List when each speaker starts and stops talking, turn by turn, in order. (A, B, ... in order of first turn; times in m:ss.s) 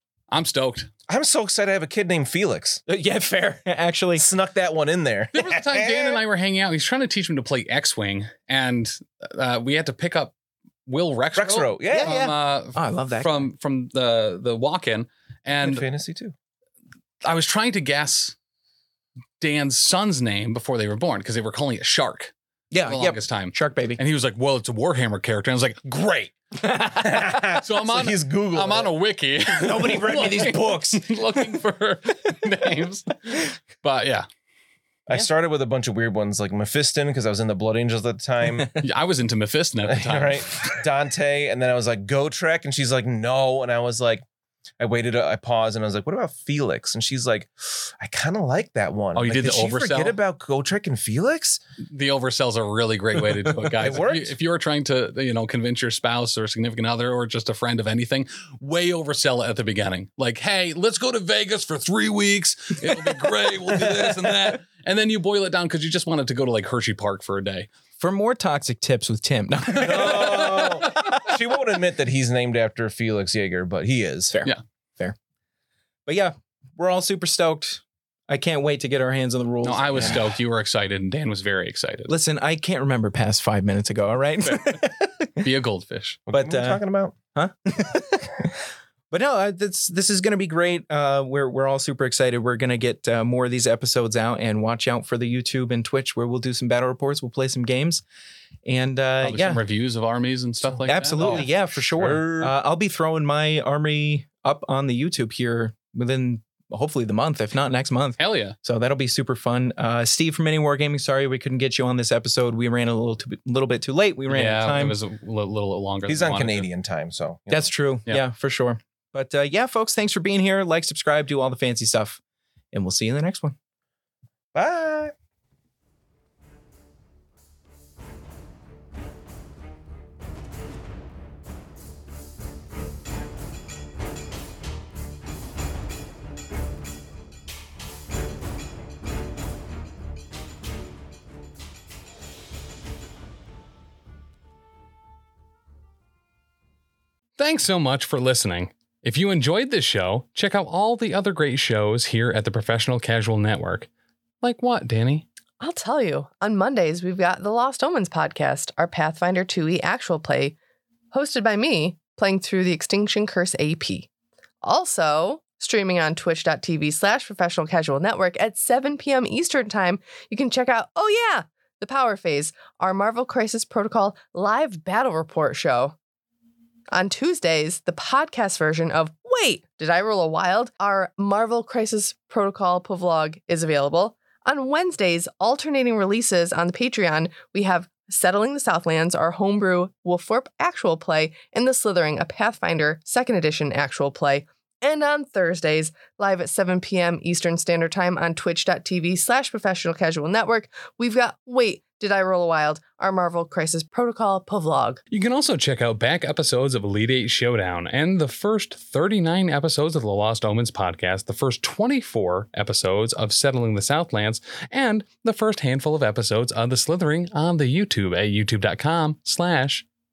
0:00.3-0:00.9 A
0:01.1-0:02.8 B
0:02.9-0:04.3 C
0:04.2-0:06.2 B
0:05.3-0:10.3 A
0:10.9-0:15.8 A
0:11.4-0:12.2 B
0:11.9-0:13.5 C
0:15.6-0:16.3 B
0:17.2-0:18.4 A
0:19.4-0:26.3 A
0:22.7-0:24.0 C
0:26.6-0:27.5 C
0:27.0-0:28.9 B
0:27.6-0:34.3 A
0:29.6-0:31.1 C
0:35.1-0:38.7 B
0:38.8-0:40.7 A
0:39.9-0:44.2 B
0:44.8-0:51.6 B
0:49.2-0:50.2 A
0:51.8-1:07.7 A
0:53.8-0:54.3 B
1:08.0-1:11.2 C
1:09.8-1:14.4 B
1:10.0-1:11.2 A
1:14.3-1:15.2 C
1:16.1-1:20.3 C
1:19.6-1:22.1 A
1:22.1-1:25.4 C
1:24.4-1:24.8 A
1:25.4-1:26.2 A
1:26.3-1:27.2 B
1:26.3-1:26.8 C
1:27.3-1:38.0 C
1:38.6-1:39.6 C
1:39.2-1:41.5 A
1:40.8-1:42.5 B
1:40.9-1:55.0 C
1:48.2-1:48.6 A
1:54.3-1:56.7 A
1:56.1-1:57.7 B
1:57.5-2:02.2 C
2:02.7-2:03.6 C
2:04.5-2:05.1 B
2:27.4-2:33.9 A
2:34.4-2:35.3 A
2:35.6-2:40.6 D
2:41.1-2:44.1 D
2:44.6-2:56.0 D
2:56.9-3:25.0 D
3:25.1-3:39.9 A